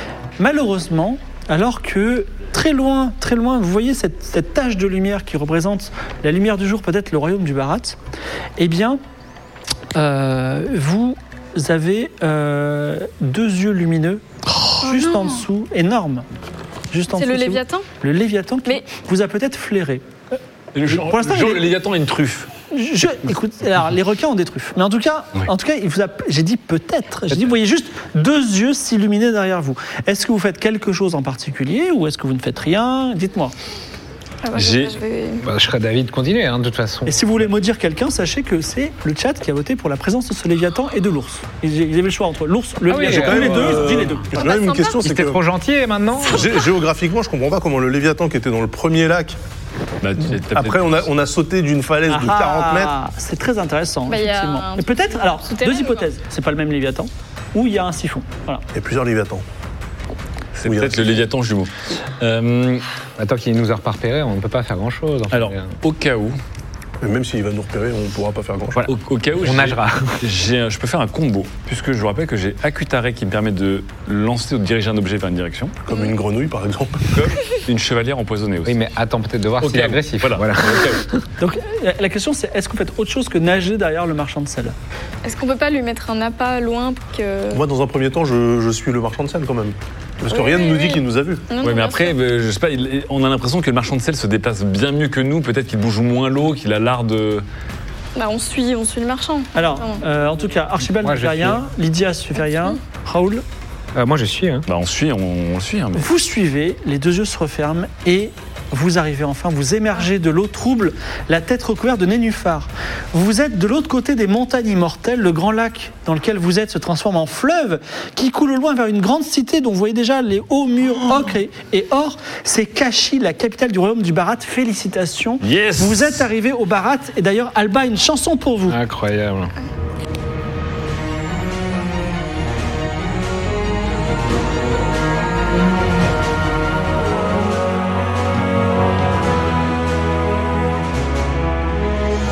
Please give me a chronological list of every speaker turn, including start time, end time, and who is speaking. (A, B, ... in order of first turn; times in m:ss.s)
0:00.4-0:08.0 A
0:08.6-0:09.0 A
0:09.9-0:16.2 A
0:14.8-0:15.4 B
0:16.9-0:20.0 A
0:17.1-0:17.9 B
0:20.7-0:22.5 C
0:20.9-0:21.7 A
0:22.7-0:33.5 A
0:34.4-0:35.4 B
0:34.5-0:35.0 C
0:35.4-0:37.5 D
0:37.0-0:44.5 A
0:42.9-0:44.1 D
0:43.0-0:45.4 E
0:44.3-0:45.0 B
0:45.0-0:46.5 D
0:46.2-0:49.4 E
0:50.0-0:51.0 C
0:50.5-0:52.9 E
0:52.1-0:58.6 A
0:54.1-0:56.1 B
0:58.7-0:59.4 E
1:00.5-1:02.8 C
1:00.6-1:01.2 E
1:03.2-1:05.7 D
1:05.3-1:06.4 C
1:07.0-1:08.8 E
1:08.7-1:10.2 D
1:08.9-1:15.8 C
1:15.8-1:17.3 E
1:17.1-1:18.8 C
1:18.6-1:21.0 D
1:19.6-1:21.0 C
1:21.4-1:24.7 A
1:25.2-1:27.6 B
1:27.5-1:31.4 E
1:30.3-1:32.1 B
1:31.6-1:37.4 C
1:38.2-1:40.0 B
1:39.5-1:43.4 A
1:41.0-1:41.6 D
1:43.9-1:44.6 D
1:44.7-1:46.1 C
1:45.9-2:08.8 A
2:05.4-2:06.2 C
2:08.7-2:09.5 D